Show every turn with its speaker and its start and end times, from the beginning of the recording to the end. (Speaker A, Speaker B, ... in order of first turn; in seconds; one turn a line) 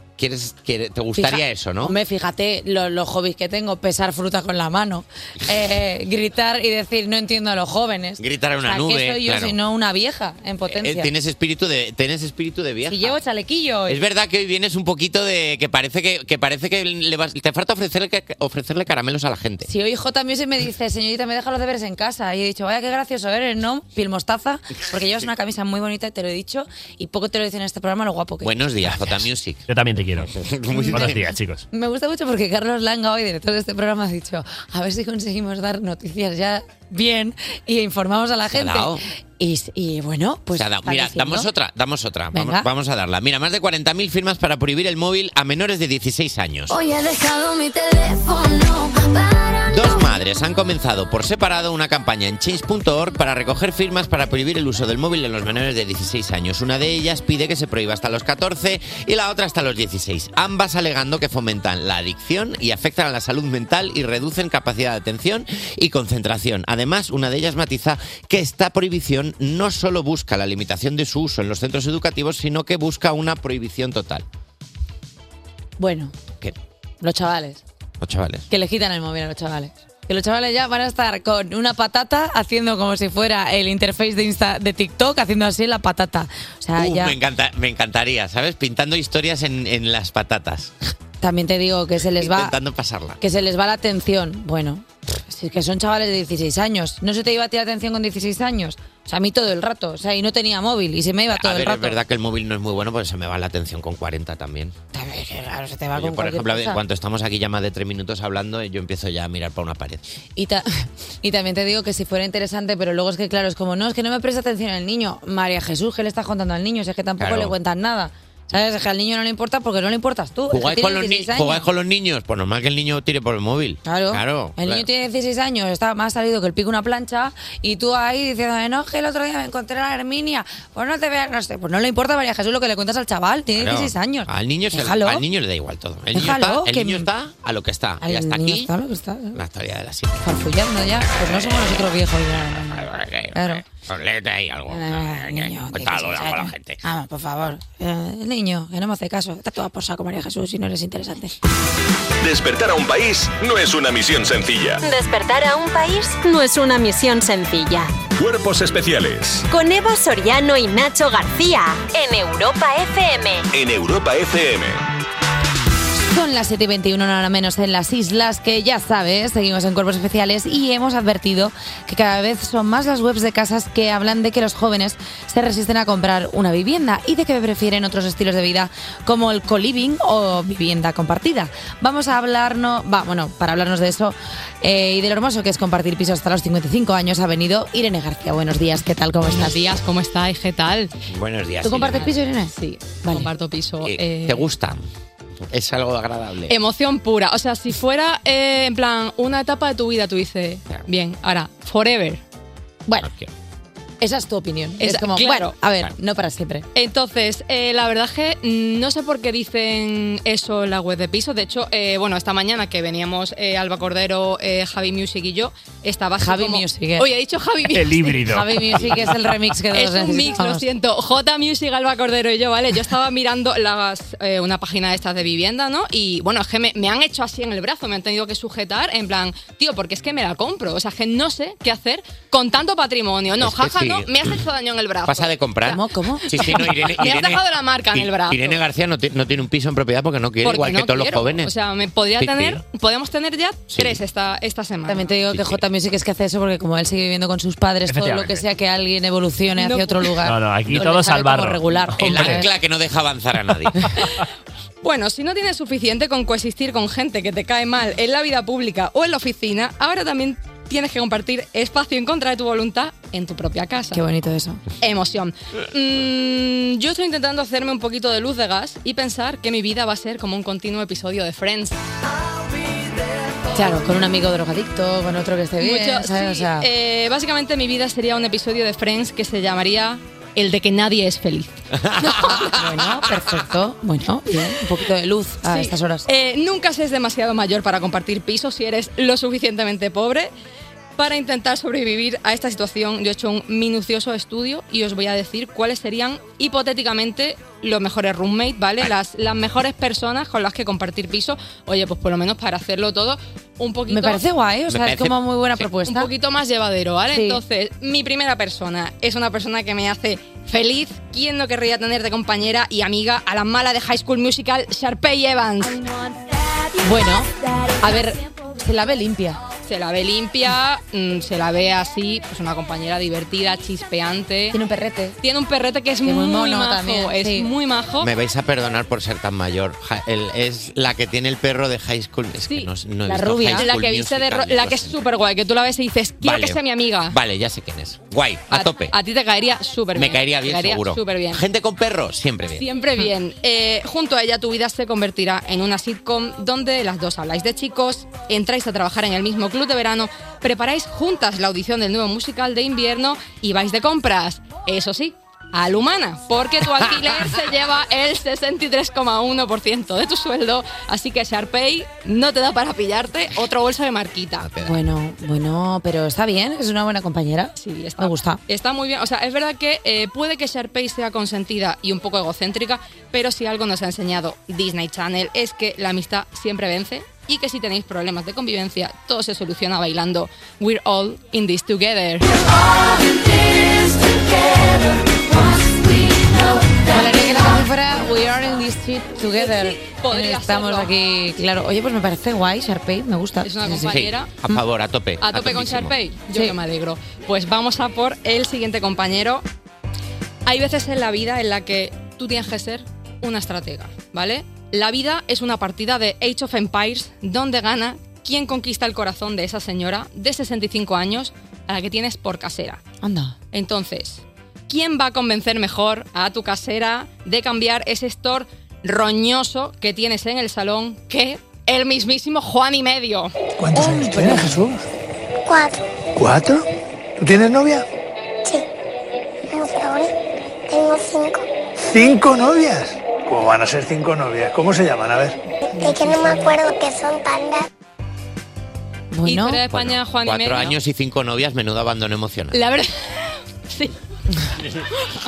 Speaker A: 0.2-1.9
Speaker B: 1.1-11.1
Speaker A: 8.2-9.6
Speaker A: 10.7-13.1
Speaker B: 12.9-14.0
Speaker A: 13.9-19.7
Speaker B: 19.7-28.5
Speaker A: 28.4-29.6
Speaker C: 29.7-30.3
Speaker A: 30.2-31.3
Speaker B: 30.7-31.2
Speaker C: 30.9-31.6
Speaker B: 31.7-41.5
Speaker A: 38.5-39.0
Speaker A: 40.5-46.7
Speaker B: 42.3-42.7
Speaker D: 46.7-50.1
Speaker A: 49.7-74.2
Speaker B: 75.8-76.1
Speaker B: 77.0-77.6
Speaker A: 78.0-78.5
Speaker B: 78.5-87.1
Speaker A: 86.8-90.7
Speaker B: 91.2-92.5
Speaker A: 92.2-93.2
Speaker B: 93.2-102.0
Speaker A: 101.3-104.7
Speaker B: 104.9-106.8
Speaker A: 105.9-110.0
Speaker B: 110.3-121.7
Speaker A: 117.2-117.5
Speaker A: 120.5-124.8
Speaker B: 123.8-135.2
Speaker A: 133.6-138.7
Speaker B: 136.1-137.1
Speaker B: 138.0-139.4
Speaker A: 139.3-140.2
Speaker B: 140.2-143.6
Speaker A: 141.2-141.8
Speaker A: 142.7-146.8
Speaker B: 144.7-151.4
Speaker E: 152.2-154.8
Speaker F: 154.8-157.9
Speaker E: 158.2-159.4
Speaker F: 159.5-163.4
Speaker E: 163.5-164.8
Speaker B: 165.9-189.6
Speaker G: 189.3-190.9
Speaker A: 191.1-192.2
Speaker B: 191.6-193.3
Speaker G: 192.5-194.5
Speaker A: 193.8-194.8
Speaker A: 195.5-196.5
Speaker G: 196.5-202.2
Speaker A: 203.0-203.3
Speaker B: 204.0-206.6
Speaker G: 204.8-205.5
Speaker G: 206.7-218.2
Speaker B: 216.2-217.1
Speaker C: 217.7-218.8
Speaker B: 218.2-220.6
Speaker G: 219.7-235.8
Speaker A: 233.4-234.1
Speaker A: 235.0-241.5
Speaker B: 235.7-236.3
Speaker G: 236.3-238.6
Speaker G: 240.4-245.1
Speaker A: 242.2-242.6
Speaker A: 243.7-244.0
Speaker B: 244.9-252.5
Speaker A: 245.3-245.6
Speaker C: 247.9-248.4
Speaker G: 249.6-250.2
Speaker C: 250.2-252.5
Speaker A: 251.9-253.9
Speaker G: 254.8-264.0
Speaker B: 263.9-264.6
Speaker G: 264.8-271.8
Speaker B: 273.5-276.7
Speaker G: 275.6-281.5
Speaker A: 281.8-282.6
Speaker B: 282.5-286.1
Speaker G: 285.5-290.3
Speaker G: 291.0-304.2
Speaker B: 303.9-306.1
Speaker A: 304.7-305.6
Speaker G: 305.9-315.8
Speaker B: 307.1-307.4
Speaker B: 316.8-319.4
Speaker G: 319.6-324.6
Speaker B: 324.5-325.2
Speaker G: 325.2-328.1
Speaker B: 326.0-327.5
Speaker A: 328.0-334.9
Speaker G: 332.4-332.7
Speaker B: 333.1-333.7
Speaker G: 333.5-337.2
Speaker A: 336.2-336.6
Speaker A: 337.1-338.9
Speaker G: 338.5-341.4
Speaker A: 339.9-342.6
Speaker G: 342.5-364.5
Speaker A: 364.4-364.8
Speaker B: 364.6-368.4
Speaker G: 367.6-382.4
Speaker B: 386.9-393.9
Speaker G: 389.3-390.9
Speaker G: 393.4-394.4
Speaker A: 393.9-395.9
Speaker G: 395.2-399.4
Speaker G: 400.4-412.8
Speaker B: 413.0-413.4
Speaker G: 413.5-423.3
Speaker H: 423.6-424.8
Speaker B: 423.7-424.6
Speaker I: 425.4-425.8
Speaker H: 426.2-426.6
Speaker H: 427.2-427.8
Speaker I: 429.5-430.1
Speaker I: 430.7-431.4
Speaker H: 431.9-435.4
Speaker B: 435.7-436.5
Speaker I: 435.8-437.7
Speaker B: 439.1-439.6
Speaker G: 439.2-440.8
Speaker A: 439.7-442.6
Speaker G: 442.5-443.9